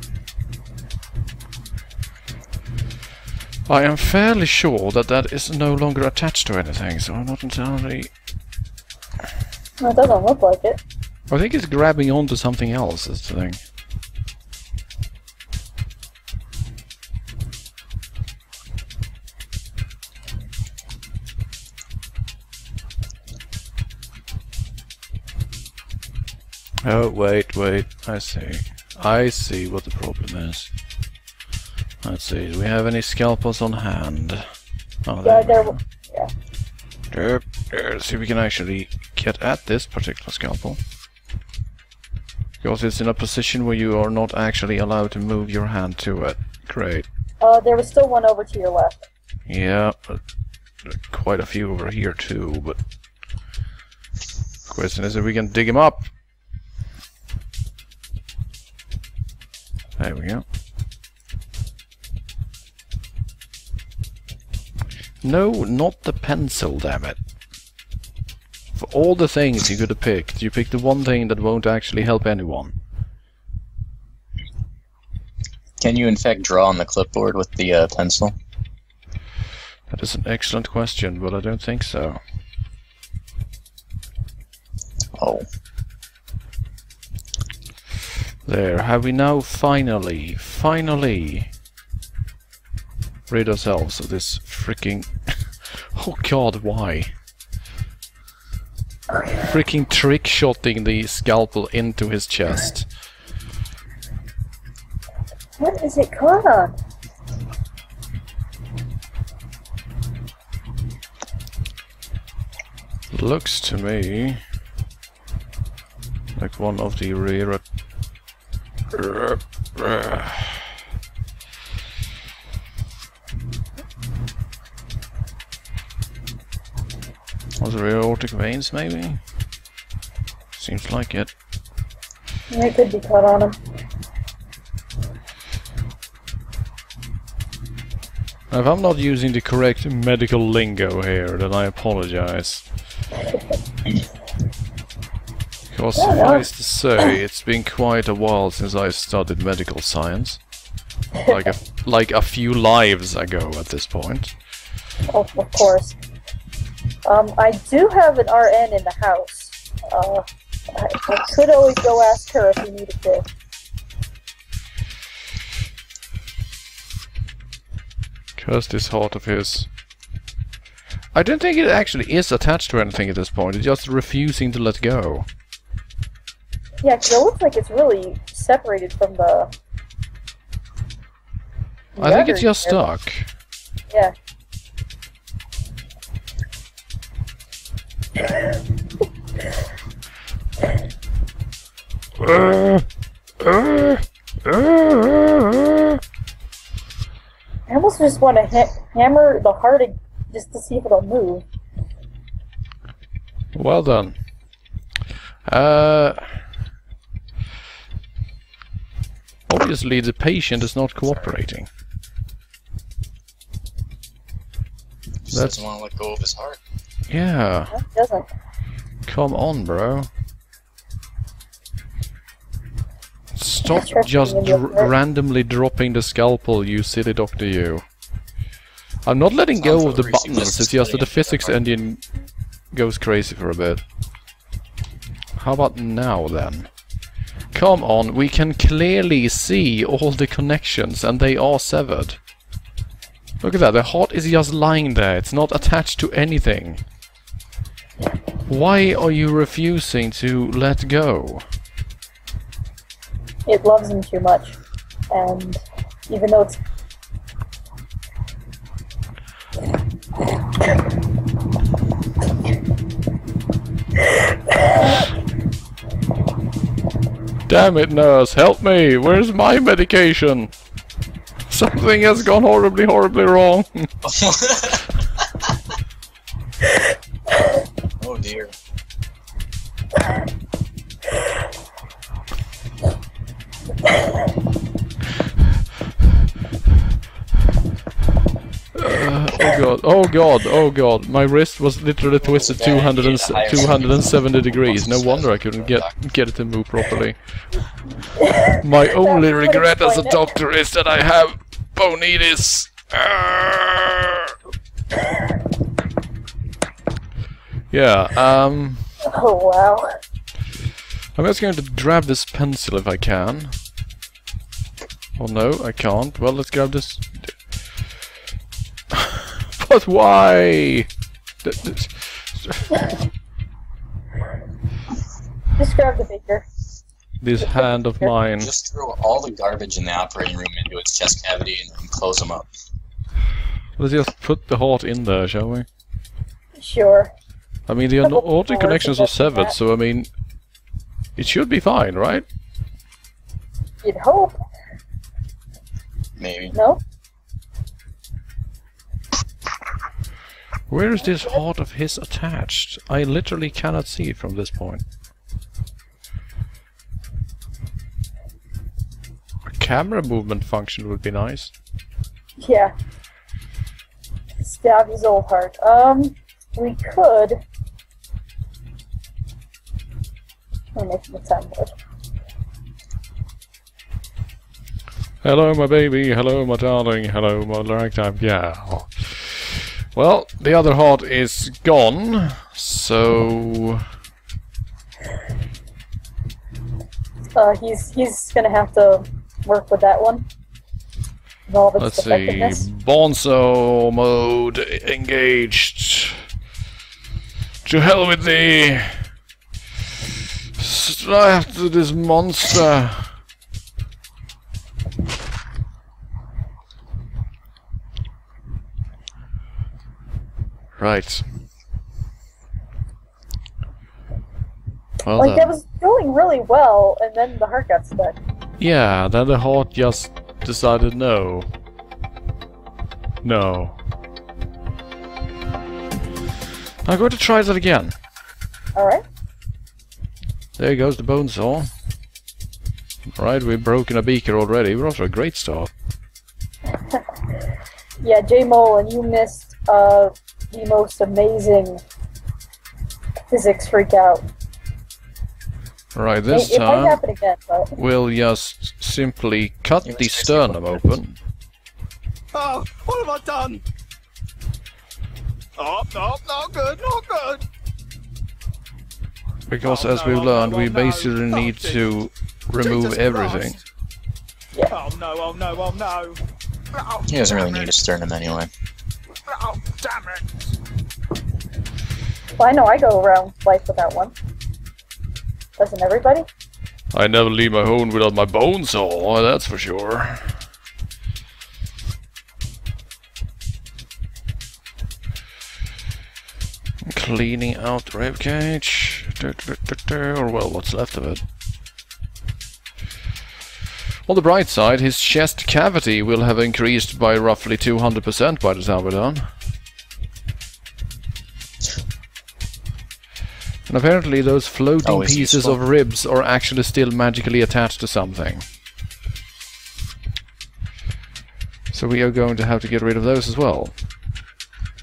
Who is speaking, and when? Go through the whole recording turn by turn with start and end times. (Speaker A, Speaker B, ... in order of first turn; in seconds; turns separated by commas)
Speaker A: 3.7-8.1, Speaker B: 9.8-10.8, Speaker A: 11.3-13.6, Speaker A: 26.8-30.7, Speaker A: 32.0-34.4, Speaker A: 35.0-35.8, Speaker B: 35.2-36.3, Speaker A: 37.1-40.8, Speaker A: 42.6-47.0, Speaker B: 47.4-49.0, Speaker A: 49.5-50.2, Speaker A: 50.8-52.8, Speaker A: 54.7-56.0, Speaker A: 60.0-60.4, Speaker A: 65.2-67.2, Speaker A: 68.8-72.8, Speaker C: 75.8-78.4, Speaker A: 79.9-82.2, Speaker C: 85.2-85.5, Speaker A: 88.5-91.5, Speaker A: 93.3-97.1, Speaker A: 99.4-102.9, Speaker B: 105.6-106.8, Speaker A: 113.1-114.4, Speaker A: 116.3-117.6, Speaker A: 118.9-120.7, Speaker A: 127.6-129.2, Speaker A: 130.5-131.3, Speaker B: 132.5-133.6, Speaker A: 138.5-142.6, Speaker A: 145.7-150.4, Speaker B: 146.0-146.5, Speaker B: 151.2-151.5, Speaker A: 151.2-154.3, Speaker B: 155.1-156.0, Speaker B: 157.0-163.2, Speaker A: 168.4-169.7, Speaker A: 171.1-175.3, Speaker B: 176.8-179.5, Speaker B: 181.9-182.8, Speaker A: 182.0-183.3, Speaker A: 192.2-192.8, Speaker A: 193.4-196.0, Speaker B: 197.7-201.4, Speaker A: 203.5-204.2, Speaker A: 205.4-206.4, Speaker A: 209.5-211.7, Speaker C: 215.2-216.6, Speaker A: 215.3-215.6, Speaker A: 217.1-217.7, Speaker B: 217.7-218.3, Speaker A: 219.1-220.1, Speaker A: 223.3-227.8, Speaker B: 223.7-224.9, Speaker A: 229.1-232.0, Speaker C: 229.6-231.6, Speaker A: 232.7-233.8, Speaker A: 235.4-236.7, Speaker A: 237.5-242.2, Speaker A: 243.4-246.8, Speaker A: 248.5-251.4, Speaker B: 253.4-254.6, Speaker B: 255.1-256.6, Speaker A: 267.5-270.5, Speaker A: 271.5-273.9, Speaker C: 274.0-274.8, Speaker C: 278.0-278.5, Speaker A: 288.7-297.2, Speaker C: 292.3-295.9, Speaker B: 298.1-300.3, Speaker A: 298.4-304.3, Speaker A: 307.7-308.9, Speaker B: 309.0-310.0, Speaker A: 311.1-313.5, Speaker A: 315.2-317.3, Speaker A: 318.9-320.9, Speaker A: 321.4-322.9, Speaker B: 325.6-326.4, Speaker A: 327.2-328.5, Speaker C: 328.4-332.5, Speaker A: 333.8-335.7, Speaker B: 336.6-337.1, Speaker A: 337.7-340.1, Speaker B: 338.0-339.5, Speaker A: 341.1-342.2, Speaker B: 343.8-344.3, Speaker C: 346.2-346.5, Speaker B: 346.5-346.8, Speaker A: 350.7-354.8, Speaker A: 359.4-361.5, Speaker B: 362.4-362.7, Speaker B: 364.4-367.4, Speaker B: 370.7-371.7, Speaker A: 375.2-383.8, Speaker B: 387.3-390.3, Speaker B: 391.5-392.6, Speaker A: 391.8-396.2, Speaker A: 397.6-399.1, Speaker A: 400.0-403.1, Speaker A: 410.8-411.2, Speaker A: 415.0-415.5, Speaker B: 415.2-418.2, Speaker A: 418.6-421.5, Speaker A: 423.2-423.8, Speaker A: 426.8-427.9, Speaker B: 428.8-429.0, Speaker A: 430.6-431.7, Speaker A: 433.1-435.7, Speaker B: 438.0-441.8, Speaker B: 443.3-444.3, Speaker A: 445.9-447.0, Speaker B: 446.3-447.7, Speaker A: 447.7-451.2, Speaker C: 449.8-450.8, Speaker D: 452.3-453.6, Speaker D: 455.6-457.4, Speaker A: 459.5-463.6, Speaker D: 459.6-461.8, Speaker D: 462.6-463.6, Speaker D: 464.7-466.2, Speaker D: 466.7-467.8, Speaker C: 467.1-468.5, Speaker D: 469.3-470.5, Speaker B: 472.4-474.1, Speaker B: 475.6-476.3, Speaker A: 476.9-480.3, Speaker A: 486.8-491.2, Speaker A: 494.1-499.3, Speaker A: 503.7-508.4, Speaker C: 504.8-505.6, Speaker A: 511.7-513.7